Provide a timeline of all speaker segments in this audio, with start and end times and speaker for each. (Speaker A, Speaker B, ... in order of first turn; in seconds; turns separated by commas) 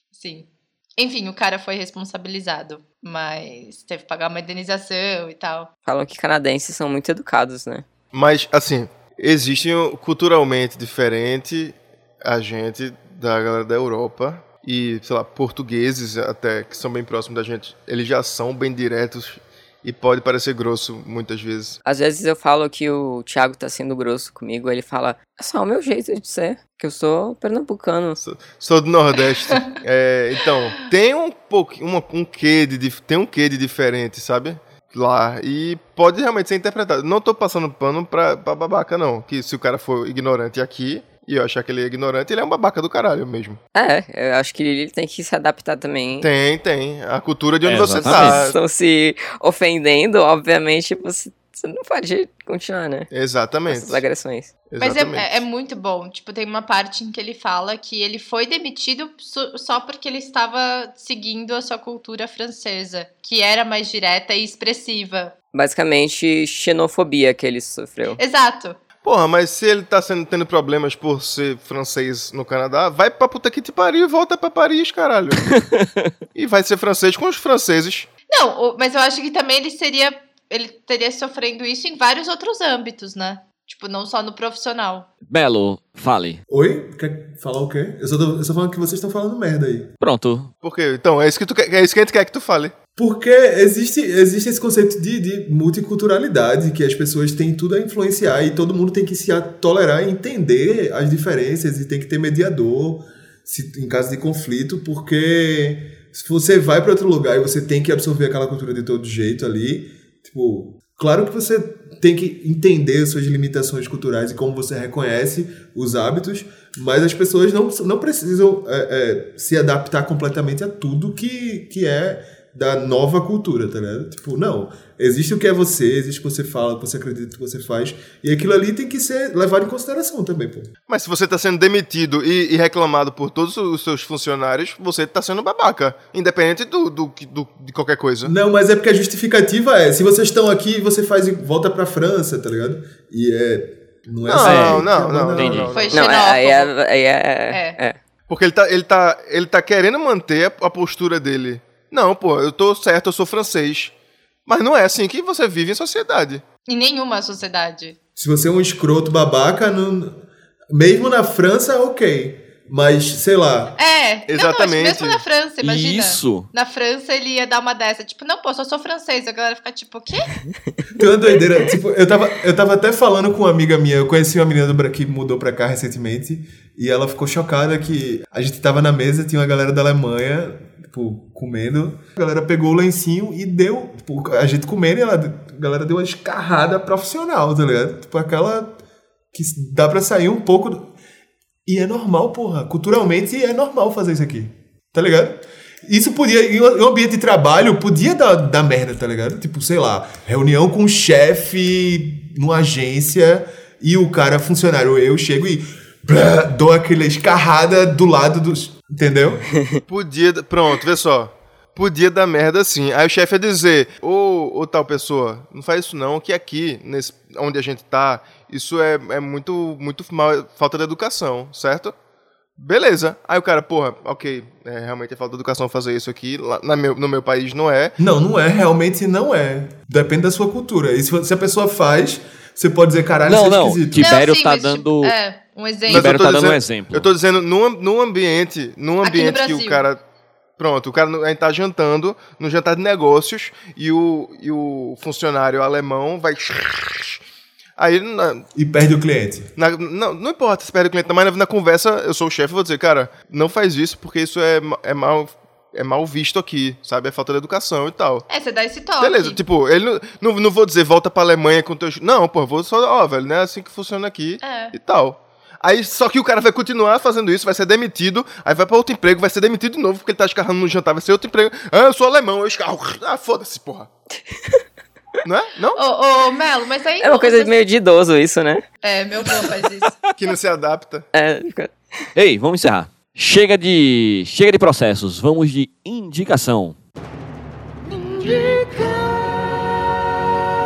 Speaker A: 0.1-5.7, Speaker B: 5.8-7.9, Speaker C: 8.1-21.8, Speaker B: 21.8-28.2, Speaker C: 28.2-43.6, Speaker B: 43.7-46.3, Speaker C: 46.2-48.5, Speaker D: 47.6-48.5, Speaker B: 48.0-53.1, Speaker C: 53.1-54.0, Speaker B: 53.7-54.6, Speaker C: 54.7-55.4, Speaker A: 54.8-65.3, Speaker B: 65.5-68.2, Speaker A: 68.2-68.8, Speaker C: 69.0-75.6, Speaker D: 75.6-76.1, Speaker C: 76.3-78.1, Speaker A: 78.3-85.1, Speaker D: 85.3-86.4, Speaker E: 86.5-89.9, Speaker D: 90.0-90.5, Speaker C: 90.6-92.7, Speaker E: 93.0-130.7, Speaker C: 130.9-138.3, Speaker E: 138.2-145.7, Speaker C: 144.2-146.2, Speaker D: 144.4-145.7, Speaker A: 145.7-146.7, Speaker B: 145.9-148.0, Speaker A: 147.5-147.8, Speaker C: 148.3-153.9, Speaker C: 154.5-156.4, Speaker A: 156.7-158.0, Speaker E: 158.2-163.7, Speaker A: 163.8-170.3, Speaker C: 164.3-165.2, Speaker D: 165.6-166.5, Speaker E: 170.9-188.8, Speaker E: 189.3-190.9, Speaker E: 191.7-209.5, Speaker C: 209.9-221.9, Speaker C: 222.6-228.0, Speaker E: 228.0-234.1, Speaker D: 233.3-235.2, Speaker A: 233.9-236.2, Speaker C: 235.9-240.0, Speaker D: 235.9-237.1, Speaker A: 239.0-239.8, Speaker C: 240.6-247.2, Speaker C: 247.8-248.4, Speaker E: 248.5-249.5, Speaker C: 249.6-258.2, Speaker A: 258.3-259.4, Speaker C: 259.0-273.9, Speaker A: 264.4-264.8, Speaker B: 274.3-274.6, Speaker C: 275.2-275.8, Speaker A: 275.8-277.6, Speaker B: 277.0-278.6, Speaker A: 278.8-280.0, Speaker C: 280.1-281.1, Speaker B: 281.1-281.8, Speaker D: 282.1-286.8, Speaker B: 288.3-288.6